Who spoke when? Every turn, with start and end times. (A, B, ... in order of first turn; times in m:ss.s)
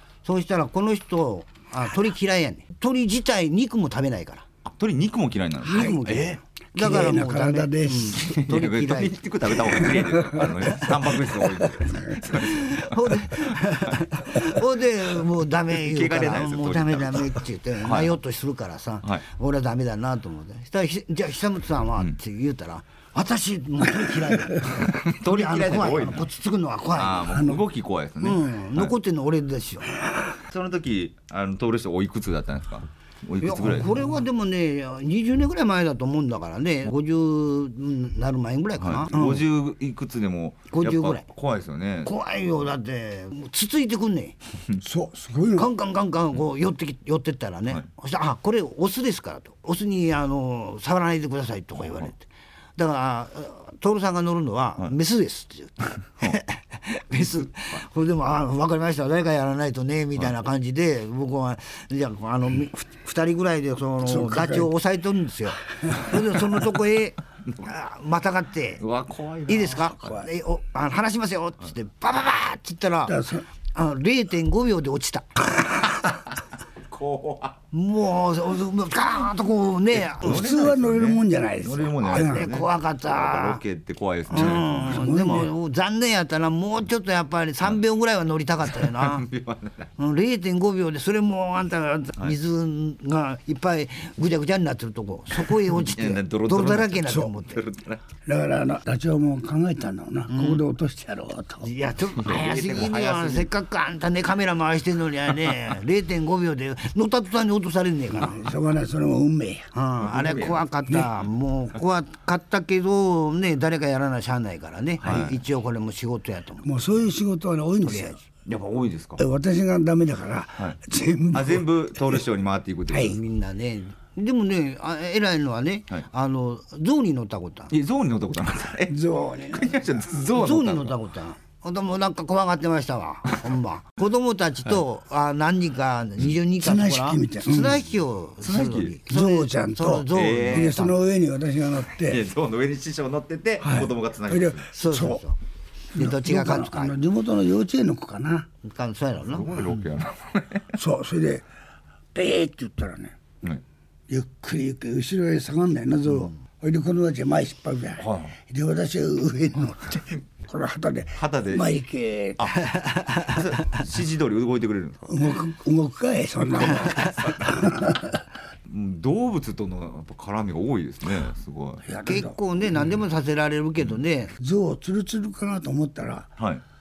0:00.2-0:04.4 A
0:04.6-0:06.4 B
0:05.6-0:09.2 A
0:06.7-0:08.2 C
0:08.1-0:14.5 B
0:10.0-0:10.9 C
0:12.4-0:27.4 A
0:15.7-0:18.2 B
0:24.7-0:26.3 B
0:27.0-0:28.9 B
0:27.3-0:27.6 C
0:28.2-0:29.9 A
0:30.4-0:34.1 B
0:33.4-0:39.4 A
0:38.8-0:42.1 B
0:40.7-0:41.2 A
0:42.0-0:44.4 A
0:44.8-0:45.7 C
0:45.6-0:52.2 A
0:51.8-0:52.1 B
0:52.8-1:08.8 A
0:57.3-0:57.8 B
1:04.0-1:04.7 C
1:08.8-1:10.2 B
1:09.5-1:13.2 A
1:13.0-1:13.5 C
1:13.7-1:15.5 A
1:16.8-1:17.6 B
1:17.7-1:20.5 A
1:19.9-1:25.4 B
1:20.2-1:22.5 C
1:22.1-1:23.6 A
1:24.3-1:29.3 A
1:24.3-1:25.5 C
1:28.7-1:29.9 B
1:30.0-1:37.6 A
1:35.7-1:38.0 B
1:38.2-1:41.7 C
1:40.3-1:40.6 A
1:41.6-1:48.4 A
1:42.2-1:43.5 B
1:48.2-1:49.7 C
1:49.7-1:57.0 A
1:50.0-1:50.6 B
1:55.0-1:55.4 B
1:56.6-1:58.2 C
1:57.8-1:58.2 A
1:58.5-1:59.2 B
1:59.2-2:02.2 C
2:01.3-2:03.2 B
2:02.9-2:03.2 C
2:03.0-2:07.7 A
2:07.7-2:11.0 B
2:08.9-2:10.0 C
2:10.3-2:21.0 A
2:16.6-2:17.8 C
2:18.4-2:19.0 B
2:19.1-2:22.2 C
2:20.1-2:20.8 B
2:22.0-2:24.7 B
2:23.6-2:25.2 C
2:24.7-2:25.4 A
2:25.9-2:28.5 C
2:26.0-2:27.0 A
2:28.6-2:29.8 A
2:29.2-2:30.7 B
2:30.7-2:31.4 C
2:32.1-2:33.2 C
2:34.1-2:42.5 C
2:38.0-2:38.4 B
2:41.2-2:41.7 B
2:42.4-2:45.3 B
2:42.7-2:43.2 A
2:45.1-2:48.2 C
2:46.6-2:47.7 B
2:48.7-2:51.8 B
2:51.8-2:52.4 C
2:52.1-2:54.3 A
2:54.4-2:56.3 C